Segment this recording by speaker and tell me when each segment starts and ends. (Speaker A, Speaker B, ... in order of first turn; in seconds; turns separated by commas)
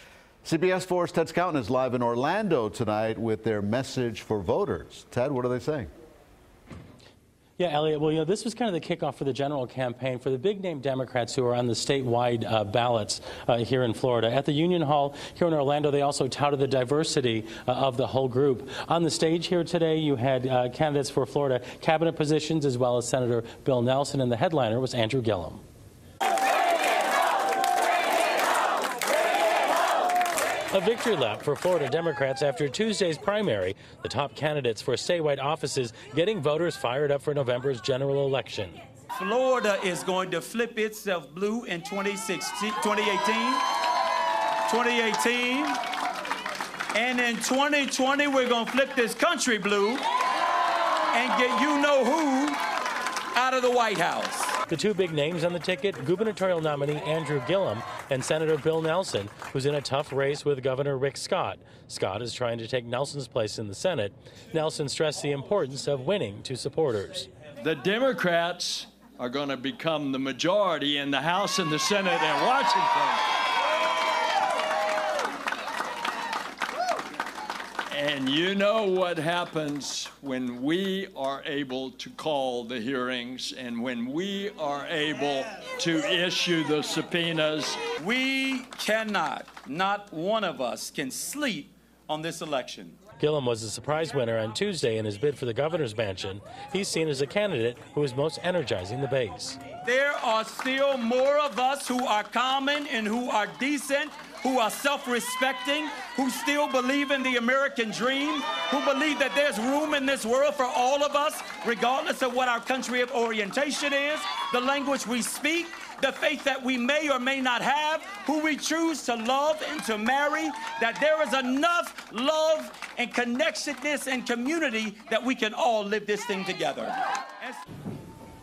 Speaker A: 0.4-5.9, Speaker B: 7.6-25.6, Speaker B: 30.7-38.8, Speaker C: 39.1-43.6, Speaker C: 44.7-45.8, Speaker C: 46.9-50.0, Speaker C: 51.1-52.6, Speaker C: 53.3-54.6, Speaker B: 54.7-67.3, Speaker D: 67.6-73.2, Speaker D: 77.9-87.8, Speaker C: 88.0-93.0, Speaker B: 93.2-99.6, Speaker C: 99.8-127.6